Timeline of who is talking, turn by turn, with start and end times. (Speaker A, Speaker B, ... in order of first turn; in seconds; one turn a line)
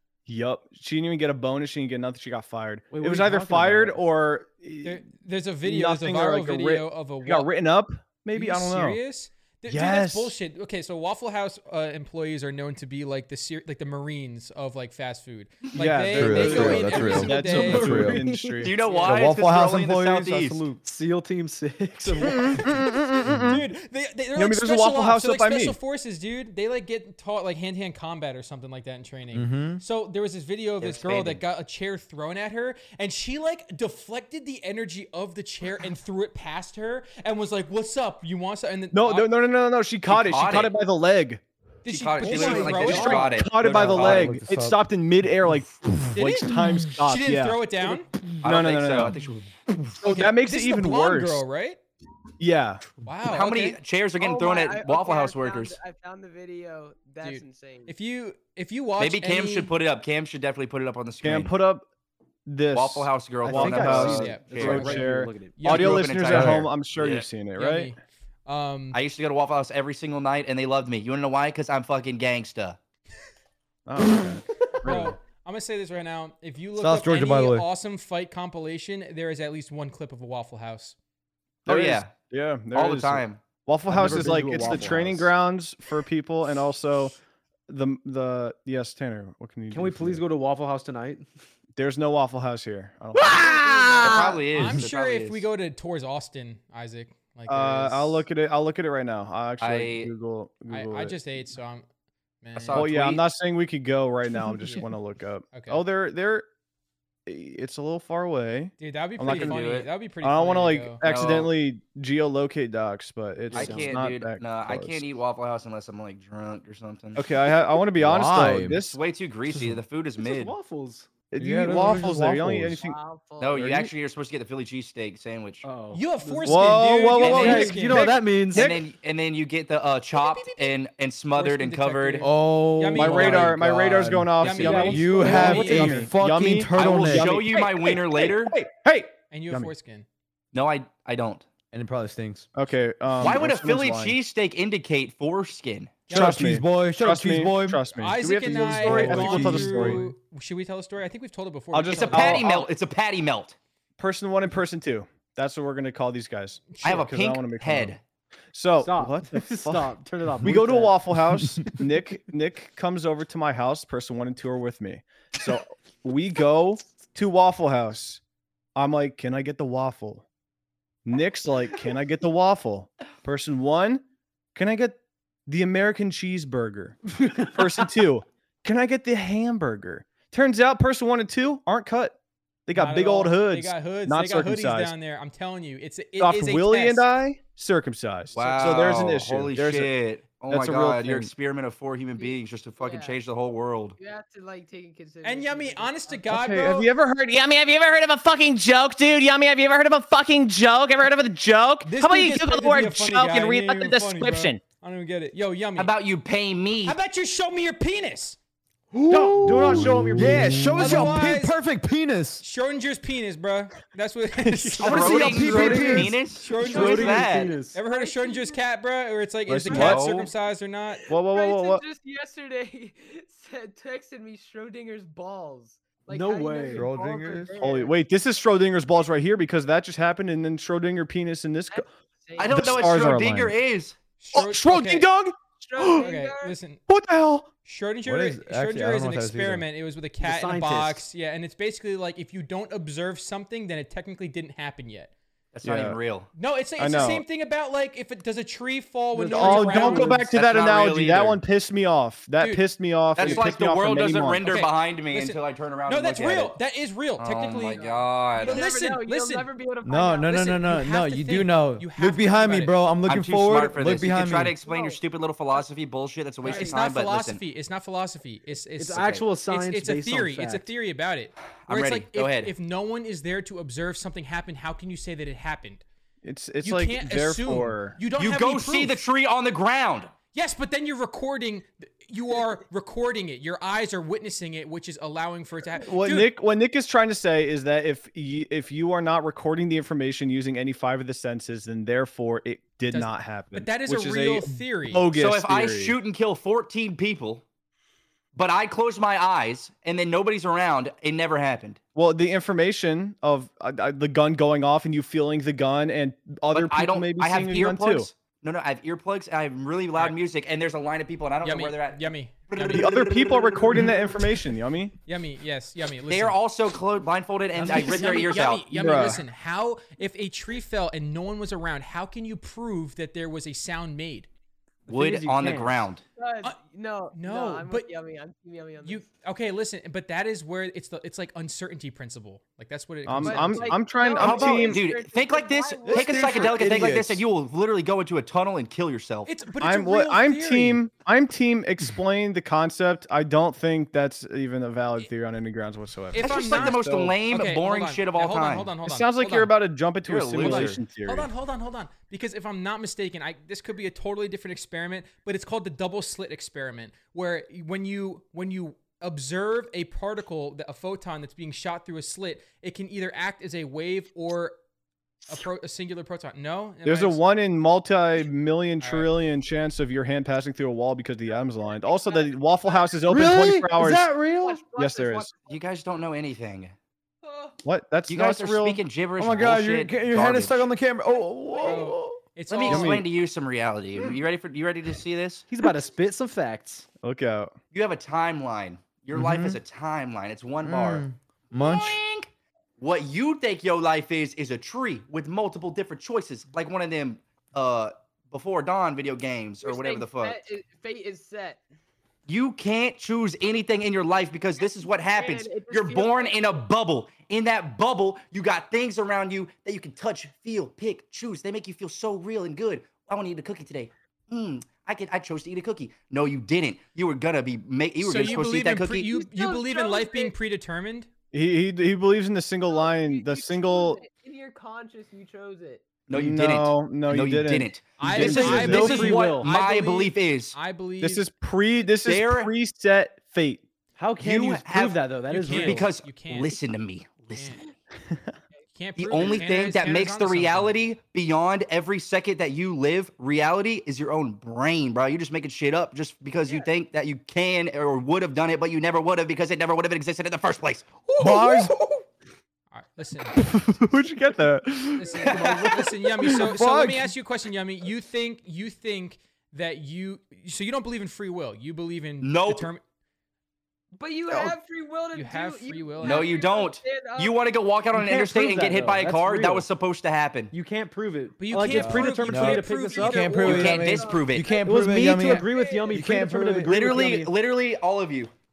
Speaker A: 0.2-5.0
Speaker B: 2.9-4.0
Speaker C: 4.8-7.5
Speaker A: 5.6-9.0
Speaker C: 8.3-18.0
Speaker A: 9.7-10.3
Speaker A: 15.7-18.8
Speaker D: 16.1-18.2
Speaker B: 16.9-18.7
Speaker E: 18.6-20.6
Speaker C: 18.8-19.2
Speaker D: 19.0-20.8
Speaker B: 20.8-22.7
Speaker C: 22.1-22.5
Speaker A: 22.2-23.6
Speaker D: 23.2-23.6
Speaker C: 23.4-39.3
Speaker A: 24.3-25.8
Speaker D: 29.3-29.8
Speaker E: 30.8-31.4
Speaker A: 38.9-41.4
Speaker E: 40.1-40.8
Speaker C: 41.8-43.3
Speaker E: 41.9-44.4
Speaker A: 42.3-47.6
Speaker D: 42.4-43.0
Speaker B: 42.6-43.2
Speaker D: 43.6-44.9
Speaker C: 46.1-48.1
Speaker E: 48.4-49.4
Speaker A: 48.4-49.2
Speaker A: 50.0-51.4
Speaker C: 50.0-51.8
Speaker A: 52.4-52.8
Speaker C: 53.0-53.8
Speaker E: 53.2-55.8
Speaker F: 54.2-57.9
Speaker C: 57.2-59.7
Speaker E: 59.0-61.5
Speaker A: 61.2-61.9
Speaker A: 62.5-67.9
Speaker E: 62.7-64.9
Speaker B: 63.4-65.7
Speaker C: 64.1-66.1
Speaker E: 65.6-67.3
Speaker D: 66.2-66.7
Speaker C: 67.5-69.0
Speaker E: 68.9-72.8
Speaker A: 73.9-75.2
Speaker C: 74.8-81.0
Speaker D: 76.8-77.7
Speaker E: 81.7-82.1
Speaker A: 81.7-87.2
Speaker E: 82.7-83.4
Speaker B: 83.9-85.3
Speaker D: 84.0-84.7
Speaker A: 87.7-90.2
Speaker B: 89.7-91.2
Speaker A: 91.8-94.2
Speaker F: 93.3-94.4
Speaker E: 93.9-95.4
Speaker C: 94.5-98.2
Speaker A: 97.5-101.2
Speaker E: 99.6-100.1
Speaker C: 100.7-101.8
Speaker C: 102.4-102.9
Speaker E: 102.5-103.2
Speaker A: 102.7-106.5
Speaker C: 104.6-104.9
Speaker C: 105.5-105.8
Speaker A: 107.2-109.6
Speaker C: 108.8-111.0
Speaker E: 109.2-109.9
Speaker A: 110.2-115.0
Speaker E: 111.0-111.5
Speaker B: 113.5-113.9
Speaker E: 113.5-117.2
Speaker A: 117.1-119.0
Speaker D: 118.0-118.8
Speaker E: 118.9-120.5
Speaker D: 119.5-119.8
Speaker B: 120.2-122.2
Speaker A: 121.3-123.0
Speaker D: 121.4-122.8
Speaker F: 122.7-123.8
Speaker E: 123.4-125.6
Speaker B: 125.6-128.7
Speaker C: 125.9-128.7
Speaker A: 126.5-128.8
Speaker E: 127.2-127.7
Speaker E: 128.5-132.3
Speaker C: 131.3-133.6
Speaker D: 132.2-137.4
Speaker A: 132.9-139.7
Speaker C: 134.4-136.1
Speaker B: 134.6-136.0
Speaker E: 136.7-138.6
Speaker C: 139.3-140.1
Speaker E: 140.5-141.4
Speaker D: 141.7-142.5
Speaker A: 142.5-144.2
Speaker E: 143.2-146.0
Speaker C: 146.1-146.4
Speaker A: 146.1-150.0
Speaker D: 146.1-147.8
Speaker C: 147.9-152.4
Speaker D: 148.4-150.1
Speaker A: 151.7-152.7
Speaker E: 151.9-153.6
Speaker A: 154.0-157.9
Speaker C: 156.7-157.0
Speaker E: 156.8-158.0
Speaker A: 158.5-168.2
Speaker B: 158.8-161.0
Speaker D: 161.3-161.6
Speaker A: 168.8-170.2
Speaker A: 171.0-174.0
Speaker A: 174.5-184.9
Speaker B: 177.1-177.8
Speaker C: 182.7-187.1
Speaker A: 186.2-189.9
Speaker E: 188.3-193.9
Speaker A: 190.5-191.3
Speaker F: 192.2-193.2
Speaker F: 194.0-196.4
Speaker C: 195.2-196.9
Speaker A: 196.3-198.5
Speaker G: 198.7-204.3
Speaker A: 199.1-200.6
Speaker A: 201.2-201.8
Speaker C: 201.8-205.9
Speaker A: 204.0-204.5
Speaker E: 205.8-207.0
Speaker C: 206.8-208.4
Speaker B: 208.9-211.1
Speaker D: 209.1-212.4
Speaker A: 209.8-210.0
Speaker C: 210.7-211.6
Speaker C: 212.4-215.8
Speaker A: 214.4-215.9
Speaker E: 214.8-217.6
Speaker D: 214.9-216.1
Speaker B: 215.1-217.8
Speaker C: 216.3-221.0
Speaker F: 217.8-218.6
Speaker A: 219.5-220.0
Speaker E: 219.7-220.3
Speaker F: 221.1-228.0
Speaker A: 221.1-221.8
Speaker B: 226.1-226.9
Speaker D: 226.7-227.6
Speaker A: 227.6-231.8
Speaker F: 231.7-233.1
Speaker E: 232.4-233.9
Speaker A: 232.5-233.5
Speaker C: 234.2-235.1
Speaker A: 234.3-236.1
Speaker F: 235.6-236.6
Speaker C: 236.0-236.8
Speaker A: 236.9-237.5
Speaker C: 237.6-245.1
Speaker D: 238.0-239.7
Speaker B: 240.2-241.1
Speaker E: 245.5-246.3
Speaker A: 245.6-246.0
Speaker C: 246.3-250.2
Speaker A: 246.8-247.2
Speaker B: 249.1-250.2
Speaker A: 249.3-254.5
Speaker E: 250.2-251.4
Speaker C: 252.4-252.7
Speaker E: 253.1-256.6
Speaker C: 253.2-253.5
Speaker C: 254.4-257.9
Speaker E: 257.2-258.6
Speaker F: 257.7-260.4
Speaker C: 258.4-259.5
Speaker D: 259.8-264.5
Speaker C: 260.3-262.7
Speaker E: 263.1-267.4
Speaker F: 264.6-265.0
Speaker F: 266.4-266.8
Speaker C: 266.4-275.8
Speaker B: 268.8-270.7
Speaker E: 268.9-269.2
Speaker E: 271.6-272.5
Speaker A: 276.2-278.0
Speaker C: 276.6-279.0
Speaker E: 278.2-280.1
Speaker C: 280.3-286.3
Speaker A: 285.8-296.0
Speaker C: 292.9-295.1
Speaker E: 295.1-297.4
Speaker E: 298.3-301.8
Speaker A: 301.9-308.1
Speaker E: 306.5-314.1
Speaker C: 311.4-312.9
Speaker A: 312.6-314.9
Speaker C: 315.1-316.4
Speaker E: 316.1-318.7
Speaker C: 317.6-324.3
Speaker B: 317.7-317.9
Speaker A: 318.7-319.2
Speaker B: 324.9-325.9
Speaker E: 324.9-326.0
Speaker F: 326.2-329.1
Speaker C: 327.1-327.9
Speaker C: 328.8-333.8
Speaker A: 333.1-334.8
Speaker F: 333.2-336.8
Speaker E: 334.2-339.3
Speaker D: 335.9-337.2
Speaker C: 339.2-340.8
Speaker A: 339.6-347.1
Speaker C: 346.1-349.5
Speaker E: 346.2-348.7
Speaker A: 348.8-351.3
Speaker E: 350.0-350.8
Speaker C: 350.4-364.6
Speaker C: 365.3-367.2
Speaker A: 366.8-374.2
Speaker C: 368.8-369.1
Speaker F: 371.3-373.2
Speaker B: 373.1-374.6
Speaker F: 374.3-375.6
Speaker A: 374.7-375.3
Speaker E: 375.4-376.7
Speaker F: 377.2-377.6
Speaker A: 377.6-378.8
Speaker E: 378.1-380.7
Speaker D: 379.2-382.2
Speaker F: 381.1-381.9
Speaker C: 381.6-383.0
Speaker E: 382.5-385.4
Speaker A: 382.7-383.1
Speaker B: 385.5-386.9
Speaker A: 387.0-387.5
Speaker E: 387.7-400.4
Speaker D: 389.1-389.6
Speaker D: 390.6-392.0
Speaker F: 399.6-401.6
Speaker E: 402.3-419.1
Speaker F: 404.6-406.5
Speaker C: 418.0-421.1
Speaker F: 419.1-420.3
Speaker A: 421.3-424.0
Speaker F: 422.7-425.9
Speaker E: 426.1-430.6
Speaker A: 426.1-429.1
Speaker C: 428.0-431.3
Speaker B: 428.2-429.5
Speaker A: 431.0-433.6
Speaker E: 432.0-432.5
Speaker B: 434.0-435.9
Speaker E: 434.2-437.6
Speaker C: 435.3-436.6
Speaker C: 437.3-437.6
Speaker C: 438.7-440.7
Speaker E: 439.0-450.9
Speaker C: 451.1-452.0
Speaker D: 451.2-451.8
Speaker C: 452.7-453.4
Speaker A: 453.3-457.1
Speaker C: 455.0-462.8
Speaker E: 455.2-455.8
Speaker E: 462.2-462.7
Speaker F: 463.9-467.4
Speaker C: 465.1-466.4
Speaker E: 466.0-470.5
Speaker B: 467.9-469.7
Speaker B: 470.5-473.4
Speaker C: 471.4-473.8
Speaker D: 471.7-476.7
Speaker F: 472.9-476.2
Speaker E: 473.4-474.5
Speaker B: 474.6-477.3
Speaker E: 476.6-478.3